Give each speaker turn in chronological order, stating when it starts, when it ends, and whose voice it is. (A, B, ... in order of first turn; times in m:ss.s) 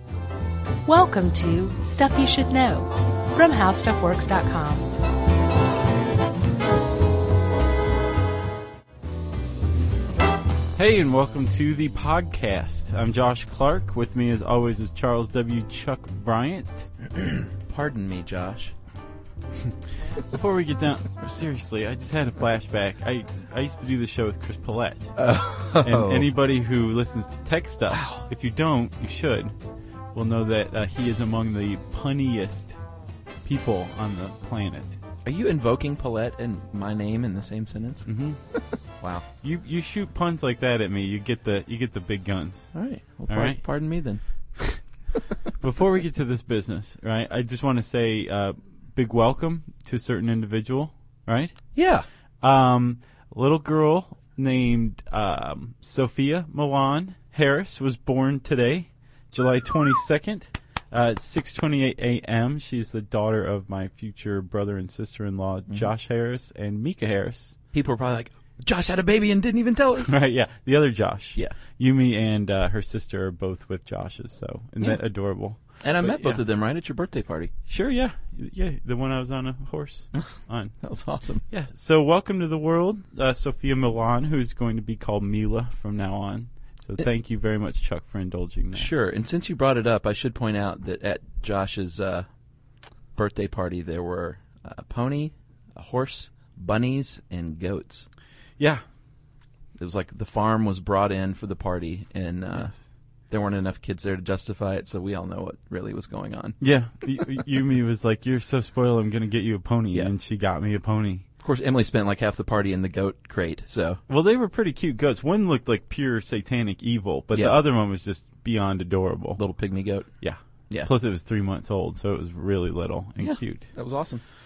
0:00.8-0:04.9 A
0:10.8-0:16.9 B
0:17.2-0:18.7 C
0:20.2-0:25.2 B
0:25.2-0:26.3 C
0:25.8-0:29.6 B
0:27.9-0:28.2 C
0:30.1-0:32.8 B
0:33.4-0:35.0 B
0:35.2-0:38.1 C
0:38.1-0:38.4 B
0:39.4-0:42.7 B
0:42.7-0:44.2 C
0:43.3-0:43.6 B
0:45.6-0:51.6 B
0:51.8-0:52.1 C
0:52.4-1:07.6 B
1:07.7-1:10.1 C
1:10.0-1:16.4 B
1:15.8-1:17.5 C
1:17.7-1:20.8 B
1:20.8-1:21.4 C
1:21.5-1:28.9 B
1:28.7-1:32.3 C
1:33.2-1:38.1 C
1:39.8-1:42.8 C
1:43.3-1:46.6 C
1:46.6-1:51.2 B
1:51.4-1:54.0 C
1:54.1-1:59.4 B
1:59.4-2:00.1 C
2:00.2-2:03.7 B
2:03.2-2:04.2 C